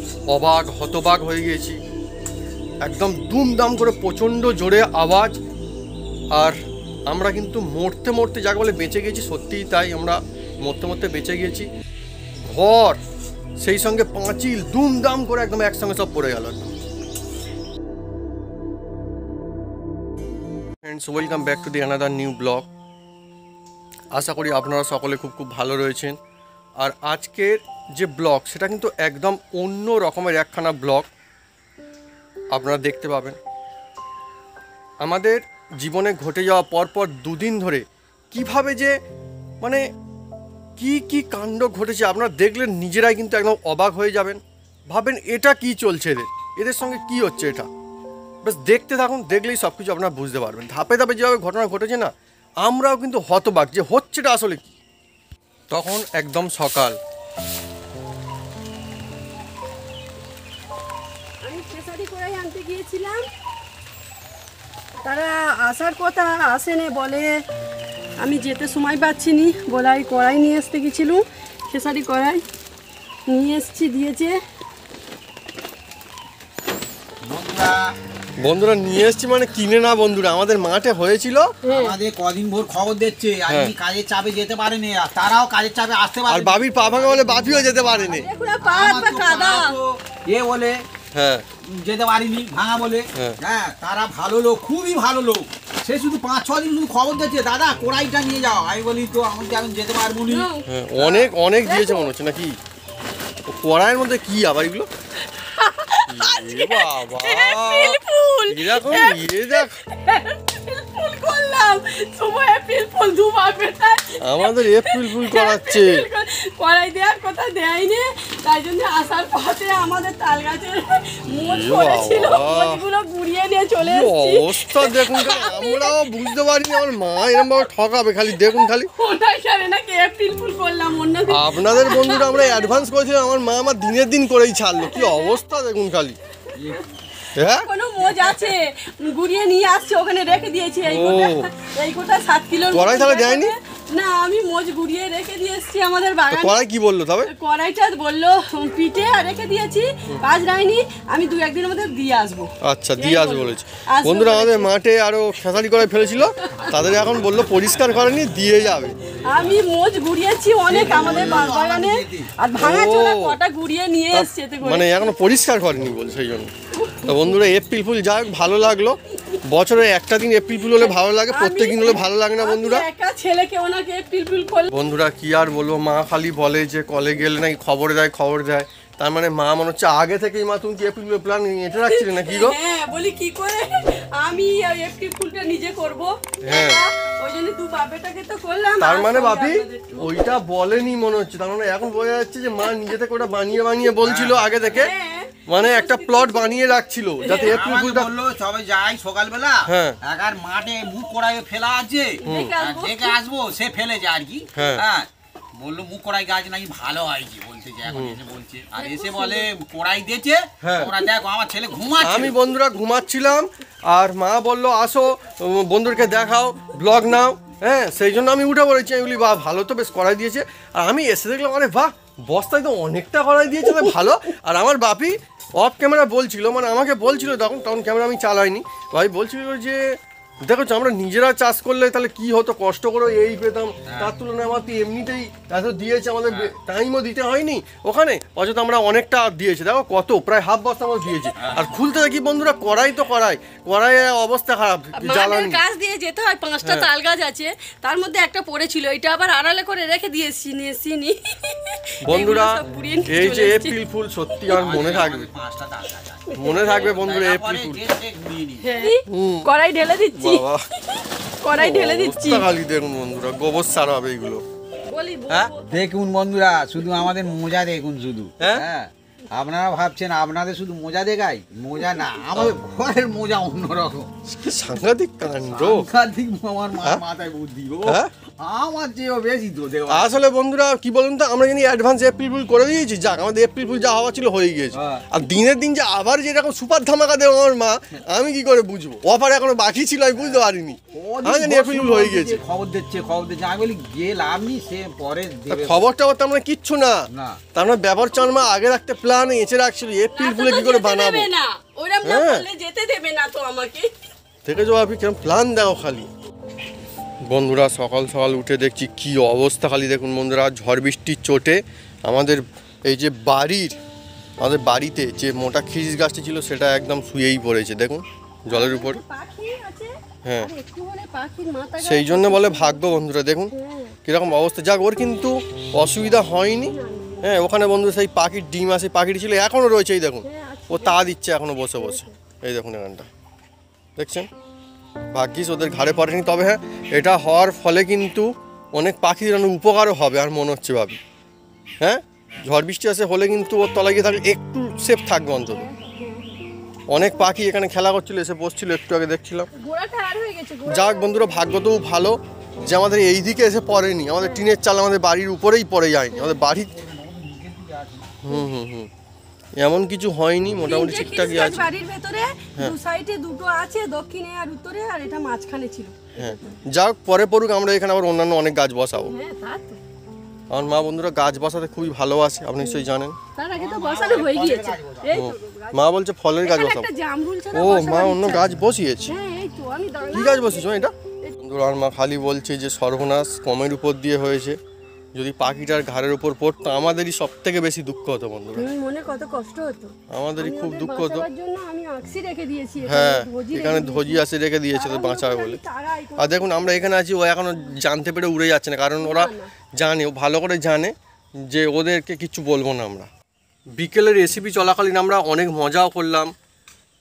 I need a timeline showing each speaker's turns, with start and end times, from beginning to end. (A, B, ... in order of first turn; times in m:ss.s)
0:00.3-0:01.8 A
0:02.8-0:05.4 A
0:07.1-0:11.7 A
0:12.5-0:13.0 A
0:13.6-0:16.7 A
0:20.8-0:22.7 A
0:24.1-0:26.2 A
0:26.8-0:31.1 A
0:32.5-0:33.4 A
0:35.0-0:38.9 A
0:40.8-0:47.7 A
0:48.4-0:52.1 A
0:52.6-0:54.7 A
0:55.7-0:57.0 A
1:01.4-1:03.2 B
1:05.0-1:07.3 B
1:08.2-1:12.4 B
1:13.3-1:14.4 B
1:17.2-1:17.9 C
1:18.4-1:21.5 A
1:21.6-1:22.0 B
1:21.7-1:28.0 C
1:23.5-1:23.7 A
1:26.3-1:28.3 A
1:27.8-1:29.8 B
1:28.6-1:30.8 C
1:31.1-1:31.4 A
1:31.6-1:40.5 C
1:40.3-1:42.1 B
1:40.6-1:42.6 A
1:43.5-1:44.9 A
1:45.2-2:07.7 B
1:46.1-1:49.8 A
1:54.2-1:56.0 A
2:01.4-2:02.8 A
2:03.8-2:08.9 A
2:08.3-2:12.9 B
2:11.3-2:16.2 A
2:14.8-2:15.4 B
2:16.5-2:17.0 C
2:17.3-2:17.7 A
2:17.4-2:26.6 B
2:18.0-2:18.5 C
2:20.8-2:21.5 A
2:22.7-2:23.5 A
2:26.3-2:27.3 A
2:27.2-2:34.7 B
2:32.6-2:39.0 A
2:36.4-2:36.7 B
2:39.2-2:45.1 B
2:40.6-2:42.3 C
2:40.7-2:41.5 A
2:42.6-2:43.4 A
2:44.1-2:46.5 A
2:46.7-2:47.4 B
2:47.0-2:52.8 A
2:50.7-2:54.7 B
2:54.7-3:02.6 A
3:01.9-3:10.3 B
3:06.4-3:06.8 A
3:08.8-3:14.9 A
3:14.0-3:14.8 C
3:14.7-3:17.6 B
3:15.4-3:18.1 A
3:17.3-3:32.4 C
3:19.7-3:20.0 A
3:22.2-3:23.2 B
3:22.2-3:22.5 A
3:24.5-3:24.8 A
3:27.9-3:28.2 A
3:28.8-3:29.5 B
3:30.6-3:30.9 A
3:32.0-4:05.6 A
3:53.8-3:54.1 C
3:56.3-3:56.5 C
4:01.4-4:01.7 C
4:05.0-4:13.8 B
4:06.6-4:06.9 A
4:12.0-4:15.3 A
4:14.4-4:14.8 B
4:14.5-4:18.9 C
4:16.3-4:16.9 B
4:16.4-4:17.9 A
4:18.6-4:22.5 B
4:19.1-4:19.5 A
4:20.1-4:20.6 A
4:21.5-4:24.4 A
4:24.8-4:25.7 B
4:25.6-4:34.1 C
4:28.4-4:28.6 A
4:34.3-4:35.9 A
4:35.5-4:40.1 C
4:37.8-4:38.1 A
4:39.9-4:52.4 A
4:44.7-4:45.0 C
4:50.9-4:55.8 C
4:55.5-5:01.3 A
4:57.1-4:57.4 C
5:00.1-5:03.9 B
5:02.0-5:02.4 A
5:04.4-5:06.1 A
5:07.2-5:13.8 A
5:14.4-5:19.0 A
5:18.5-5:24.0 B
5:20.2-5:20.5 A
5:21.8-5:23.5 A
5:24.0-5:33.1 A
5:26.6-5:27.3 B
5:30.2-5:31.0 B
5:31.8-5:32.1 B
5:34.0-5:34.3 A
5:35.1-5:41.0 A
5:41.8-5:45.6 A
5:45.4-5:46.4 B
5:46.9-5:49.5 A
5:47.0-5:47.3 B
5:49.5-5:51.6 B
5:50.6-5:56.7 A
5:54.2-5:54.5 B
5:56.1-5:56.4 B
5:56.4-5:58.2 C
5:58.2-5:58.9 A
5:59.6-6:01.6 A
6:00.6-6:06.6 B
6:06.2-6:09.1 A
6:09.1-6:09.8 B
6:10.5-6:13.2 A
6:12.6-6:12.8 B
6:13.4-6:15.8 B
6:13.5-6:15.1 C
6:15.1-6:16.9 A
6:16.4-6:18.4 B
6:17.5-6:19.1 A
6:19.1-6:21.4 B
6:20.1-6:24.6 A
6:25.2-6:28.7 A
6:28.6-6:36.9 B
6:30.1-6:31.2 A
6:32.8-6:35.6 A
6:36.2-6:40.9 A
6:39.0-6:39.5 B
6:41.5-6:43.1 A
6:43.8-6:46.3 A